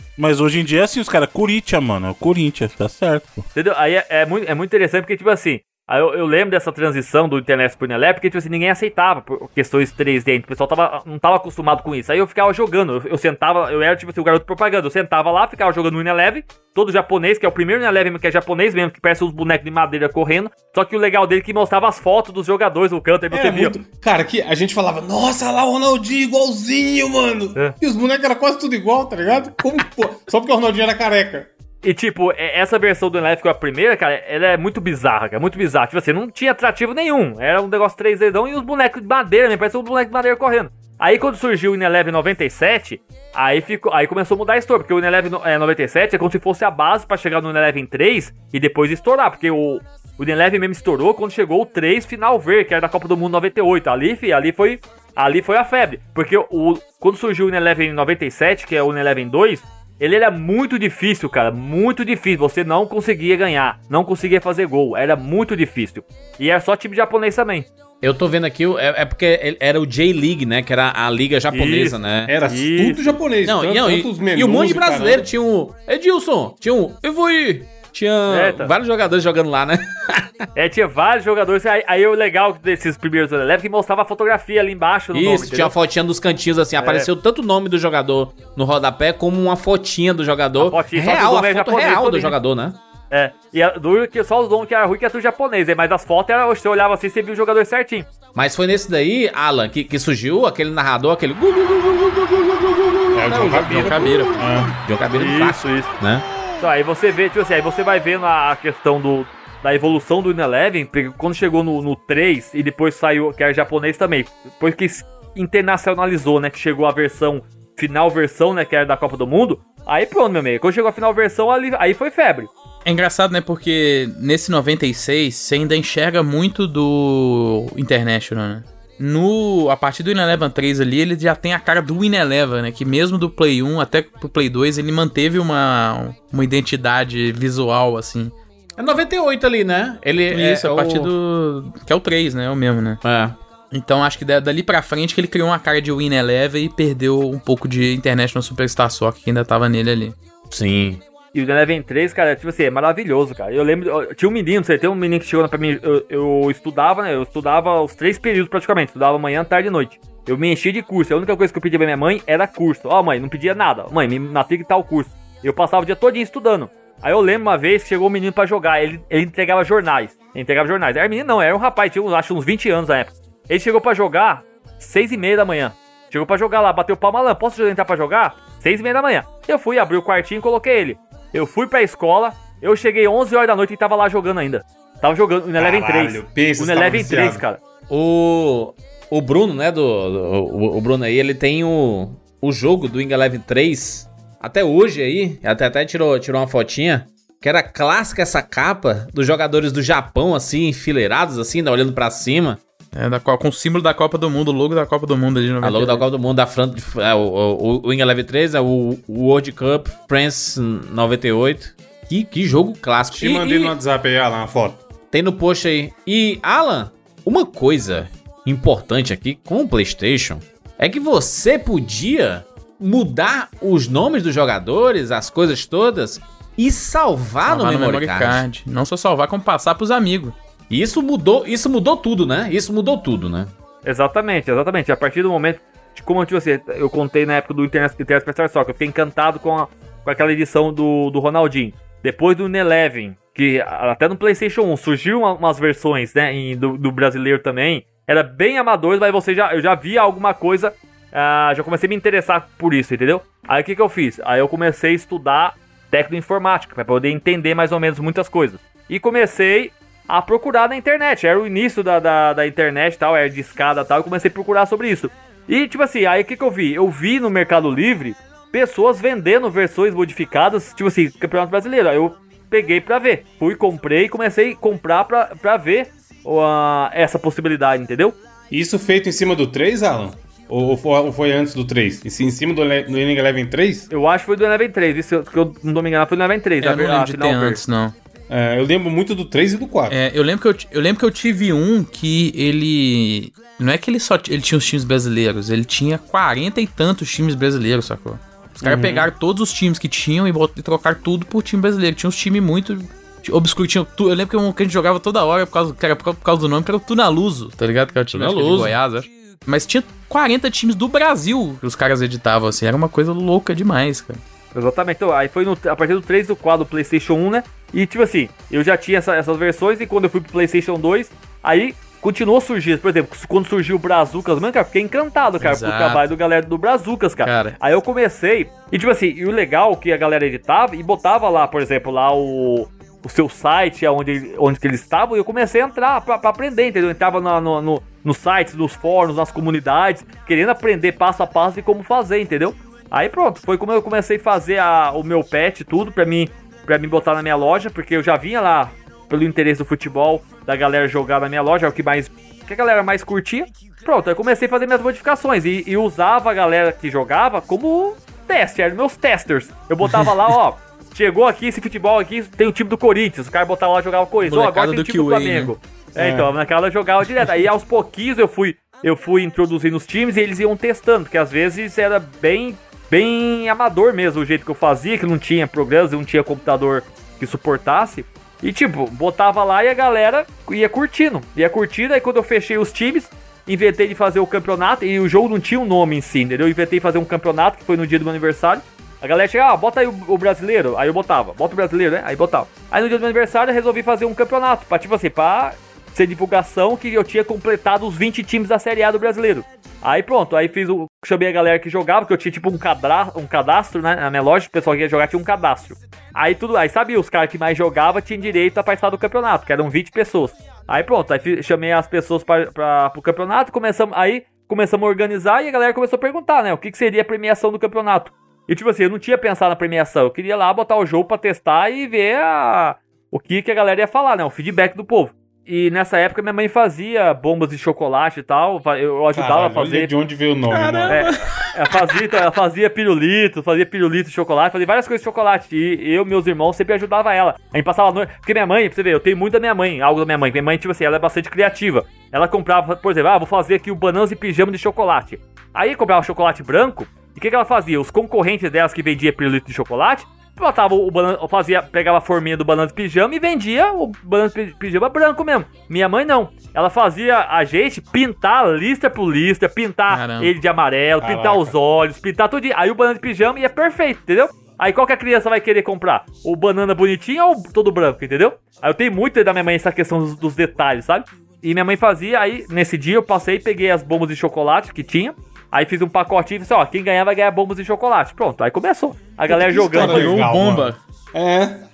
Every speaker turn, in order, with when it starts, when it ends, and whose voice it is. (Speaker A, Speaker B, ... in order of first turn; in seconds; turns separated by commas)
Speaker A: 0.2-3.4, Speaker B: 3.5-23.8, Speaker C: 23.3-31.5, Speaker B: 31.8-67.7, Speaker D: 68.0-72.3, Speaker B: 71.5-73.2, Speaker C: 72.3-75.3, Speaker D: 73.4-80.3, Speaker B: 78.3-78.7, Speaker B: 80.5-85.7, Speaker D: 85.1-92.8, Speaker B: 86.8-87.1, Speaker B: 90.6-92.4, Speaker B: 93.1-98.1, Speaker D: 98.3-106.2, Speaker C: 103.1-104.8, Speaker E: 103.5-104.5, Speaker B: 105.2-105.9, Speaker B: 106.6-122.5, Speaker E: 122.8-138.3, Speaker D: 138.8-141.1, Speaker E: 140.3-143.0, Speaker D: 143.0-143.3, Speaker E: 143.7-150.2, Speaker D: 150.5-151.0, Speaker B: 151.3-187.6, Speaker C: 185.6-187.4, Speaker D: 187.9-202.6, Speaker E: 202.9-206.0, Speaker D: 205.6-213.7, Speaker C: 213.1-214.8, Speaker D: 215.1-228.4, Speaker E: 227.4-230.3, Speaker D: 230.7-233.5, Speaker B: 233.8-278.1, Speaker C: 278.5-283.9, Speaker B: 283.9-287.6, Speaker E: 286.6-287.9, Speaker C: 288.3-290.0, Speaker E: 289.9-314.2, Speaker C: 298.6-299.1, Speaker D: 308.1-308.7, Speaker B: 314.5-429.9, Speaker E: 325.4-326.0, Speaker E: 327.2-327.6, Speaker E: 359.9-360.1, Speaker E: 364.2-365.5, Speaker C: 365.9-366.3, Speaker C: 429.1-431.0, Speaker E: 430.5-431.7, Speaker B: 430.9-480.1, Speaker E: 459.9-460.3, Speaker C: 461.0-461.5, Speaker C: 479.3-481.6, Speaker E: 479.3-480.8